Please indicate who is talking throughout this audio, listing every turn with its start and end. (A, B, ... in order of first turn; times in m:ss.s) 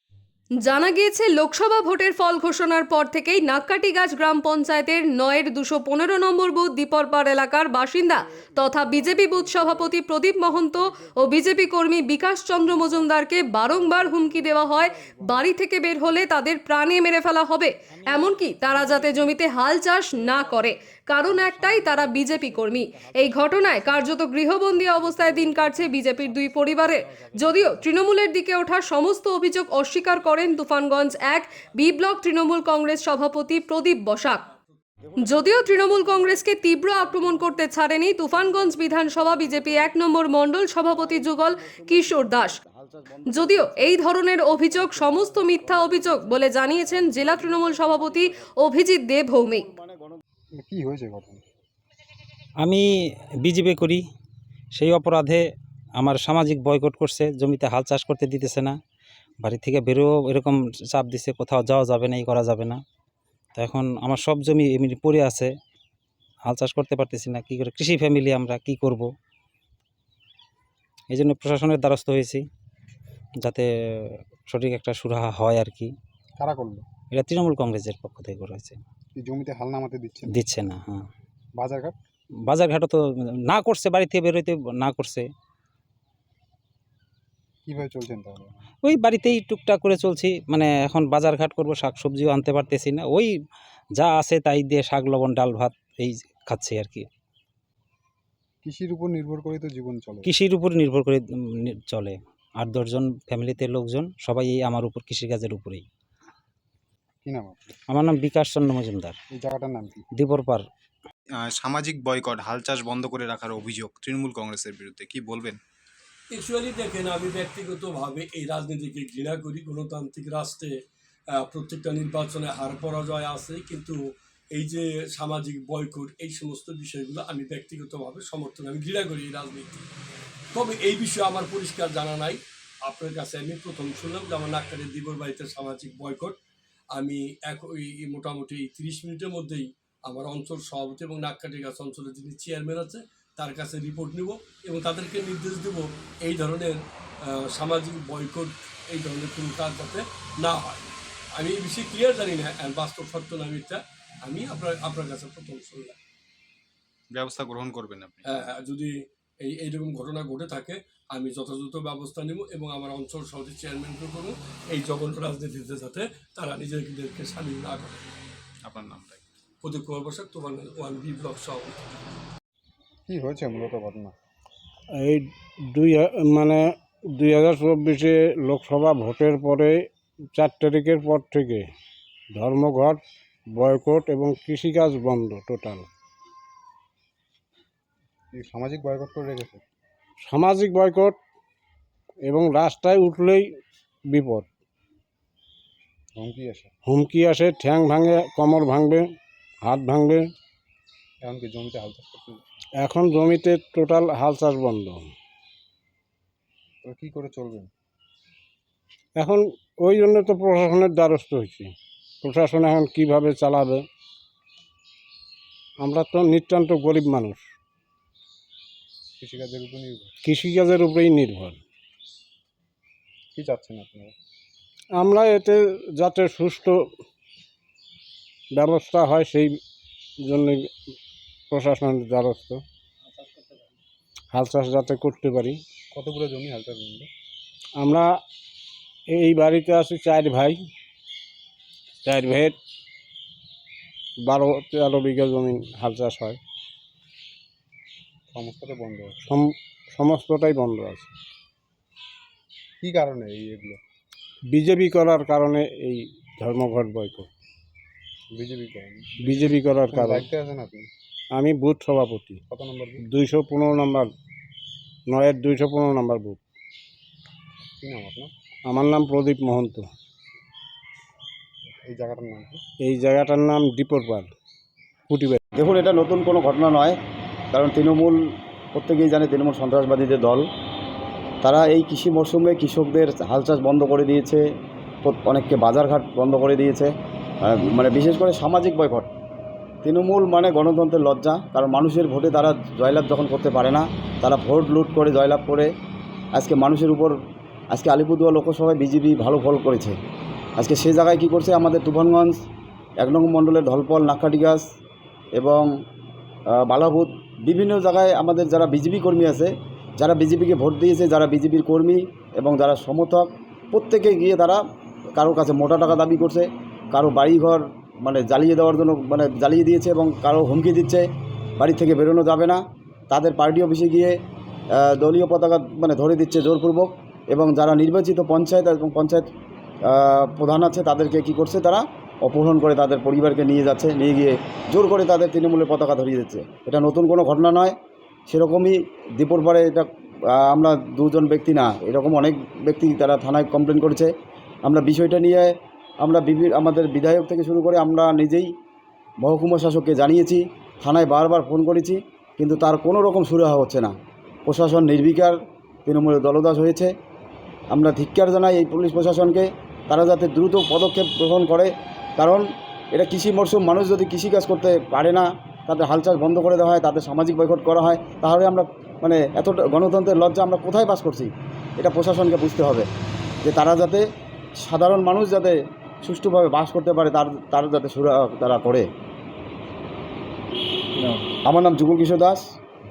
0:00.6-0:34.4 A
0:09.2-0:09.7 B
0:31.3-0:34.8 C
0:35.1-0:36.4 D
0:35.2-0:42.6 A
0:37.0-0:37.7 D
0:38.3-0:40.1 D
0:40.8-0:48.5 D
0:43.3-0:49.7 A
0:49.4-0:50.2 D
0:50.6-0:51.4 E
0:53.4-0:54.0 F
0:54.7-0:55.4 F
0:56.0-0:58.8 F
0:59.4-1:02.8 F
1:03.6-1:05.5 F
1:06.4-1:09.1 F
1:11.1-1:12.5 F
1:13.4-1:15.9 F
1:16.4-1:16.8 E
1:17.1-1:18.8 F
1:19.1-1:20.4 E
1:20.3-1:21.1 F
1:21.6-1:22.0 E
1:22.5-1:25.3 F
1:27.6-1:28.5 E
1:28.8-1:33.3 F
1:34.0-1:37.1 F
1:38.6-1:40.3 E
1:40.2-1:45.8 F
1:47.2-1:47.6 E
1:47.9-1:49.2 F
1:49.3-1:50.0 E
1:50.2-1:50.7 F
1:51.3-1:55.6 G
1:56.3-2:00.8 C
2:01.4-2:04.0 C
2:04.5-2:09.8 C
2:10.5-2:16.4 C
2:16.9-2:30.8 C
2:31.4-2:36.0 C
2:37.1-2:38.2 G
2:38.2-2:48.0 C
2:48.6-2:49.2 G
2:49.6-2:51.8 C
2:53.1-2:54.1 E
2:55.0-2:56.6 B
2:57.1-3:01.7 B
3:02.3-3:03.0 B
3:03.5-3:05.8 B
3:08.3-3:09.6 E
3:10.2-3:11.2 B
3:12.2-3:13.5 B
3:14.1-3:14.5 B
3:16.2-3:16.7 E
3:16.8-3:19.0 B
3:19.6-3:20.2 B
3:21.2-3:22.4 E
3:22.8-3:25.1 B
3:26.8-3:27.7 E
3:29.2-3:33.8 B
3:35.8-3:37.4 B
3:39.2-3:40.1 E
3:40.2-3:41.6 B
3:43.4-3:44.1 E
3:44.9-3:46.9 B
3:48.5-3:49.6 B
3:50.2-3:50.7 B
3:51.5-3:52.6 B
3:54.3-3:55.6 B
3:55.9-3:57.1 E
3:57.8-3:58.1 B
3:59.1-4:00.6 B
4:02.0-4:02.6 B
4:04.2-4:06.4 B
4:08.3-4:09.2 E
4:09.3-4:11.1 B
4:12.8-4:13.8 E
4:14.5-4:17.3 B
4:18.3-4:20.9 E
4:19.2-4:20.3 B
4:21.3-4:22.4 B
4:22.5-4:23.0 E
4:23.0-4:24.1 B
4:25.1-4:26.4 B
4:27.8-4:28.3 E
4:28.7-4:29.9 B
4:31.8-4:32.6 E
4:32.8-4:34.3 B
4:35.1-4:35.4 B
4:35.5-4:37.0 D
4:37.5-4:38.2 D
4:38.7-4:40.5 D
4:41.4-4:44.4 D
4:45.0-4:49.1 D
4:49.8-4:55.7 D
4:56.3-4:57.2 D
4:57.7-5:00.0 D
5:00.6-5:02.4 D
5:03.0-5:04.6 D
5:05.3-5:05.7 D
5:06.5-5:14.6 D
5:15.2-5:21.0 D
5:21.6-5:24.1 D
5:24.7-5:29.3 D
5:29.8-5:37.7 D
5:38.3-5:44.1 D
5:44.6-5:48.5 D
5:49.2-5:53.9 D
5:54.4-5:56.9 D
5:57.7-6:12.9 D
6:13.4-6:14.0 D
6:14.6-6:18.9 D
6:21.4-6:22.4 D